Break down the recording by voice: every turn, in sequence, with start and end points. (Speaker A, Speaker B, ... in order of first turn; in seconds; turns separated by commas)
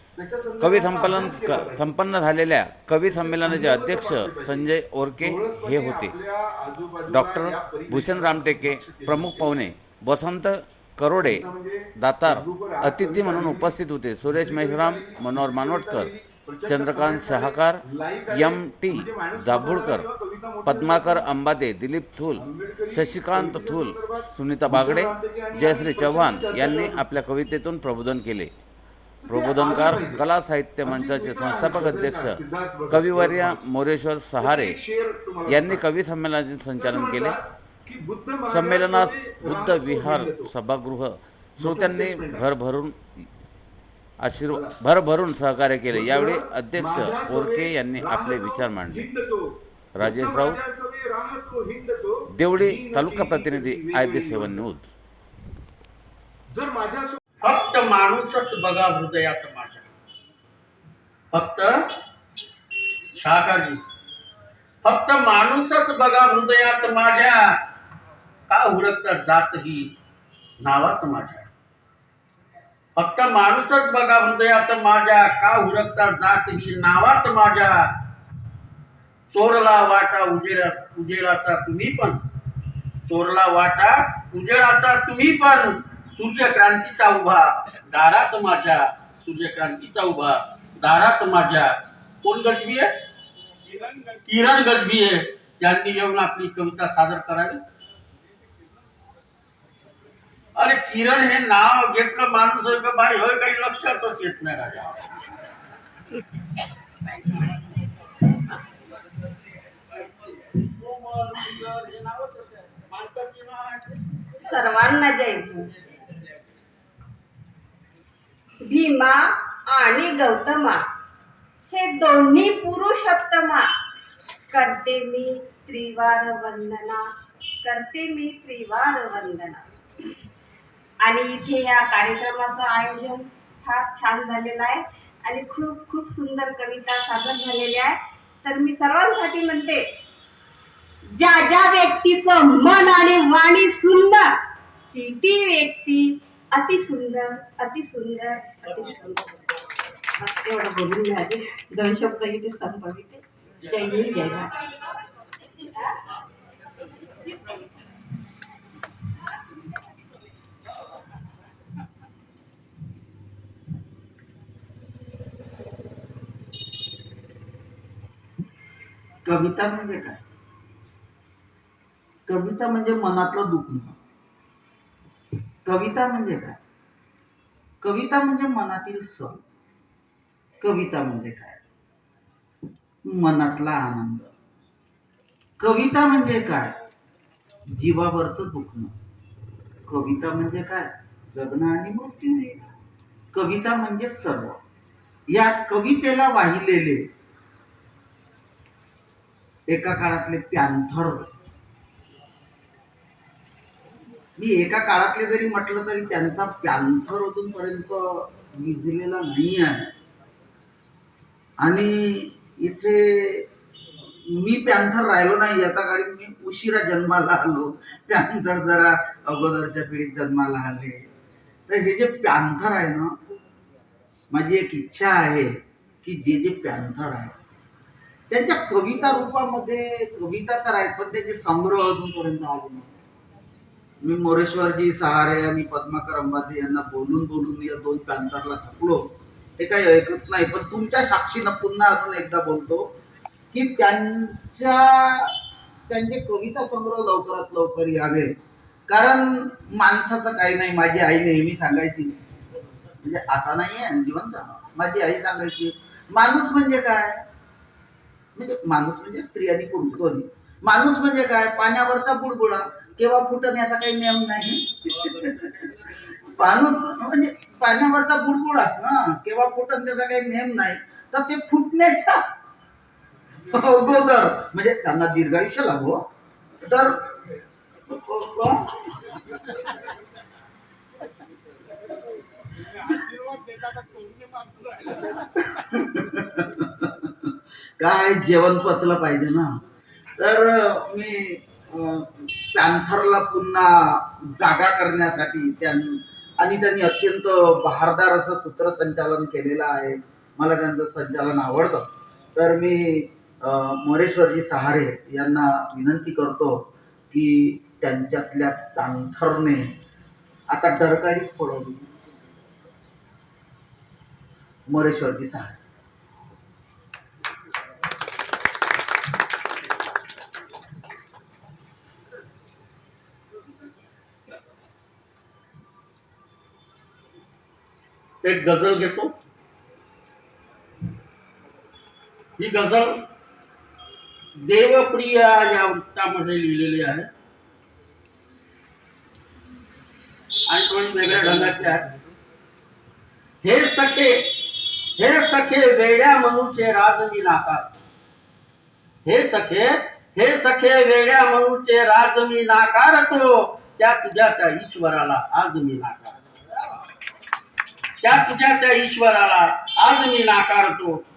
Speaker A: 0.1-2.2, Speaker B: 0.6-6.1, Speaker A: 3.0-9.7, Speaker B: 7.1-11.4, Speaker A: 11.2-13.8, Speaker B: 12.0-16.1, Speaker A: 14.3-21.3, Speaker B: 16.7-20.0, Speaker B: 20.6-28.5, Speaker A: 22.4-27.1, Speaker A: 29.2-30.2, Speaker B: 29.3-32.4, Speaker A: 30.8-33.6, Speaker B: 32.9-34.8, Speaker A: 34.4-35.8, Speaker B: 35.5-37.3, Speaker A: 36.8-40.5, Speaker B: 38.5-42.9, Speaker A: 41.6-42.5, Speaker B: 44.2-49.0, Speaker A: 44.5-44.8, Speaker A: 45.9-54.6, Speaker B: 50.0-50.6, Speaker B: 52.4-54.9, Speaker A: 56.5-57.2, Speaker C: 57.4-59.9, Speaker C: 61.3-61.8, Speaker C: 63.1-63.8, Speaker C: 64.8-67.5, Speaker C: 68.5-69.9, Speaker C: 70.6-71.5, Speaker C: 73.0-77.9, Speaker C: 79.3-82.2, Speaker C: 83.0-92.9, Speaker C: 94.2-97.6, Speaker C: 100.5-105.1, Speaker C: 110.4-114.0, Speaker D: 114.4-115.7, Speaker D: 118.6-120.8, Speaker D: 121.7-123.7, Speaker D: 124.5-127.0, Speaker D: 127.6-129.6, Speaker D: 131.0-139.9, Speaker D: 141.1-144.3, Speaker D: 144.9-149.3, Speaker D: 150.2-154.6, Speaker E: 169.2-170.2, Speaker E: 172.3-174.0, Speaker E: 175.6-176.6, Speaker E: 177.8-179.4, Speaker E: 180.6-181.6, Speaker E: 183.0-184.3, Speaker E: 185.6-186.8, Speaker E: 187.7-188.9, Speaker E: 189.8-192.6, Speaker E: 193.3-194.6, Speaker E: 195.3-197.1, Speaker E: 199.7-201.3, Speaker E: 204.4-209.9, Speaker E: 211.6-213.5, Speaker E: 214.3-221.1, Speaker E: 221.7-223.2, Speaker E: 224.3-227.3, Speaker E: 228.3-232.9, Speaker E: 234.0-239.0, Speaker E: 239.6-242.9, Speaker E: 243.5-245.3, Speaker E: 245.9-248.3, Speaker E: 248.9-252.2, Speaker E: 253.0-257.2, Speaker E: 258.4-272.2, Speaker E: 273.4-276.0, Speaker E: 276.6-277.3, Speaker E: 277.9-279.0, Speaker E: 285.0-287.1, Speaker E: 287.8-289.5, Speaker E: 290.1-309.7, Speaker E: 310.5-311.9, Speaker E: 314.7-315.6, Speaker C: 328.2-329.1, Speaker C: 332.4-333.1, Speaker C: 334.4-337.1, Speaker C: 340.5-341.9, Speaker C: 343.4-344.4, Speaker C: 345.0-347.7, Speaker C: 349.0-356.1, Speaker C: 358.0-361.0